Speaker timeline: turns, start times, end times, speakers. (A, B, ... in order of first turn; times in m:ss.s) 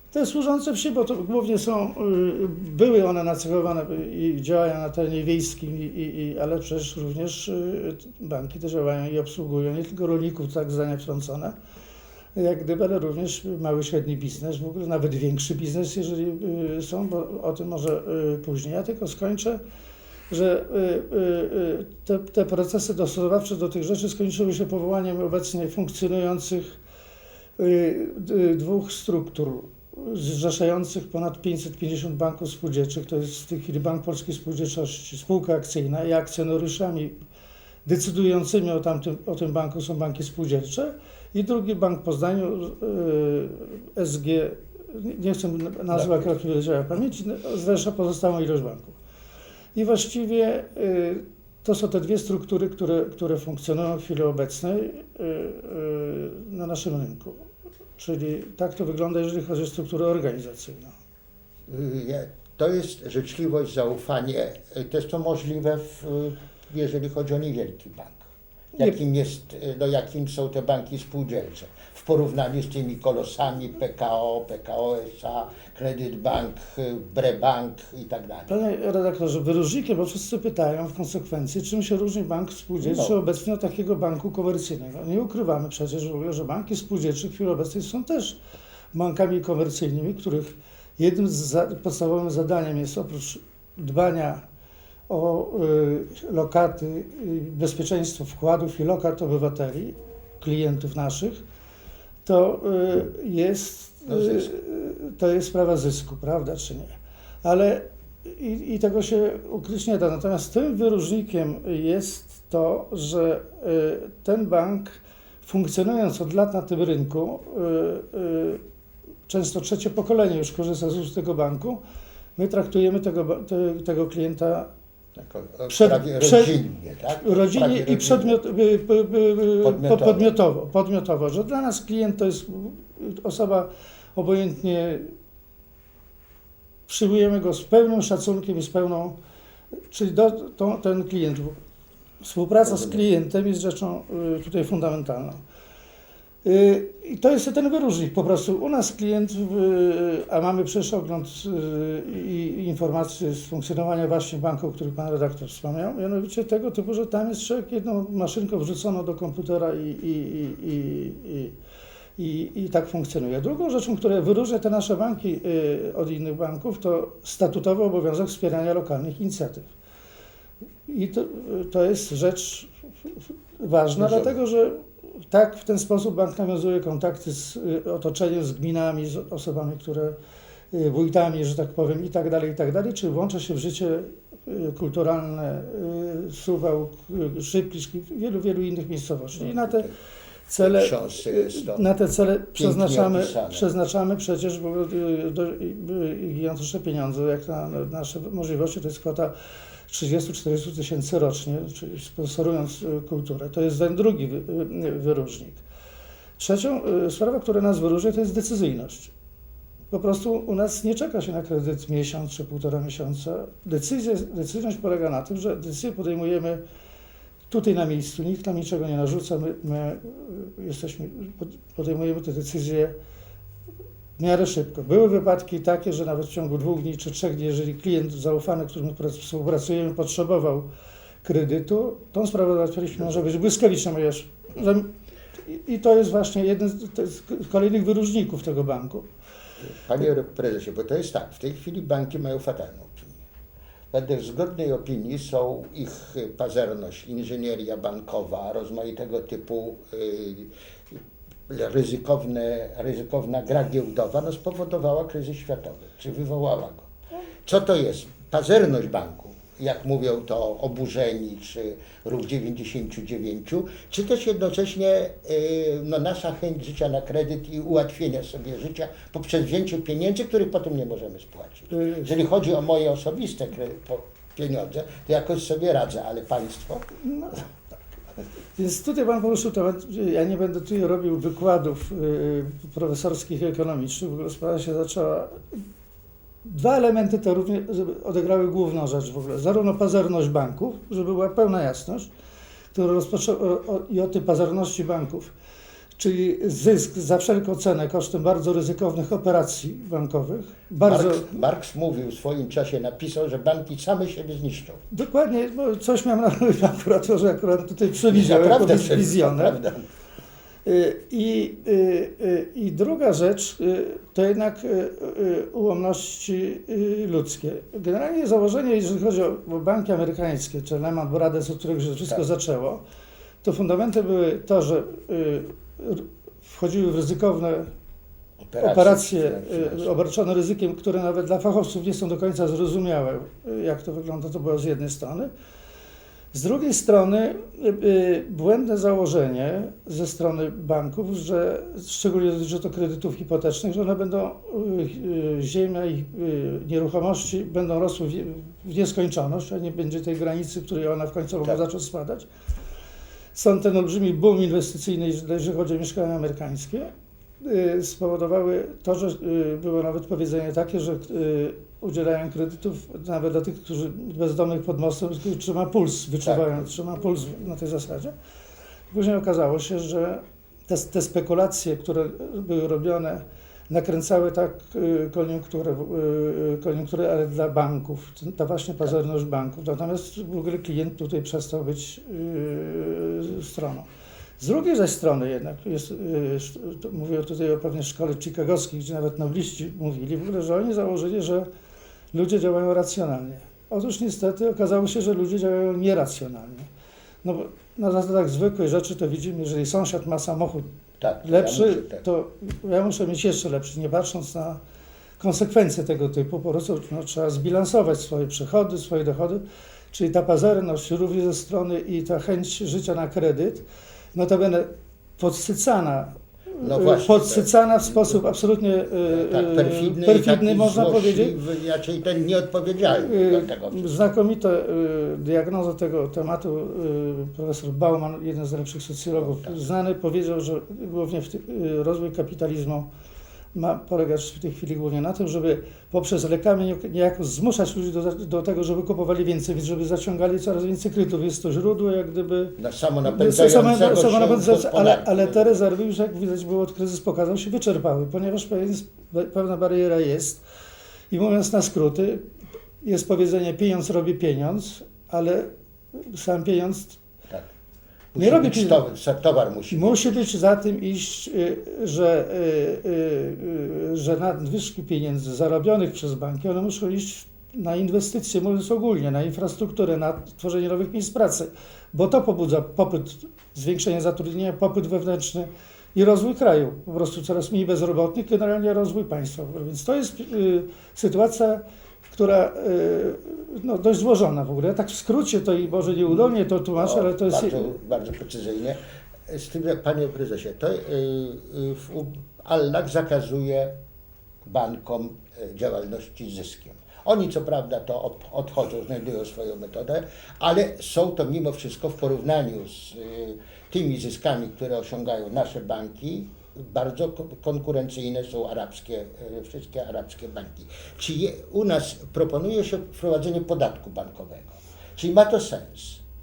0:00.1-0:11.6 A
0:12.4-0:19.6 A
0:20.3-0:26.8 A
0:27.6-0:37.2 A
0:37.9-0:49.0 A
0:45.9-0:46.3 B
0:49.8-1:01.0 A
1:01.7-1:08.2 B
1:08.8-1:18.6 B
1:18.5-1:28.4 A
1:22.8-1:23.2 B
1:28.9-1:34.4 A
1:35.1-1:41.4 A
1:42.2-1:58.6 A
1:44.1-1:44.5 B
1:59.3-2:01.8 A
2:02.4-2:04.7 A
2:05.2-2:08.4 B
2:05.7-2:06.6 A
2:07.2-2:15.1 A
2:09.6-2:10.3 B
2:16.9-2:19.2 A
2:19.9-2:21.6 A
2:22.2-2:25.4 A
2:22.6-2:23.0 B
2:26.4-2:41.6 A
2:42.2-2:49.7 A
2:50.9-2:52.7 A
2:53.6-3:00.2 A
2:54.0-2:54.3 B
3:00.7-3:09.9 A
3:09.4-3:09.9 B
3:10.5-3:19.3 A
3:10.6-3:11.9 B
3:12.6-3:13.7 B
3:19.9-3:25.6 A
3:26.4-3:29.1 A
3:29.9-3:36.6 A
3:37.5-3:42.9 A
3:44.2-3:50.7 A
3:51.2-3:54.9 A
3:55.5-3:59.1 A
3:59.6-4:03.2 B
4:03.9-4:16.9 B
4:17.5-4:36.9 B
4:31.7-4:32.1 A
4:37.0-4:37.4 A
4:38.6-4:45.6 A
4:46.4-4:52.1 A
4:52.7-4:55.3 A
4:56.0-5:01.4 A
5:00.8-5:04.8 B
5:04.9-5:09.6 A
5:08.1-5:09.9 B
5:10.6-5:22.8 A
5:23.4-5:27.7 A
5:28.4-5:30.0 B
5:28.6-5:35.3 A
5:36.3-5:52.3 A
5:53.4-6:08.1 A
6:06.2-6:06.7 B
6:08.9-6:23.9 A
6:24.4-6:31.5 A
6:32.1-6:36.7 A
6:37.2-6:40.7 A
6:41.0-6:42.0 B
6:41.2-6:44.6 A
6:45.2-7:01.4 A
6:56.6-6:58.2 B
6:59.1-7:04.1 B
7:02.9-7:12.9 A
7:09.2-7:09.6 B
7:13.6-7:30.4 A
7:22.6-7:25.6 B
7:31.1-7:32.2 A
7:32.8-7:37.0 A
7:38.1-7:40.3 B
7:38.2-7:38.8 A
7:39.7-8:07.7 A
8:06.8-8:13.8 B
8:14.4-8:36.0 B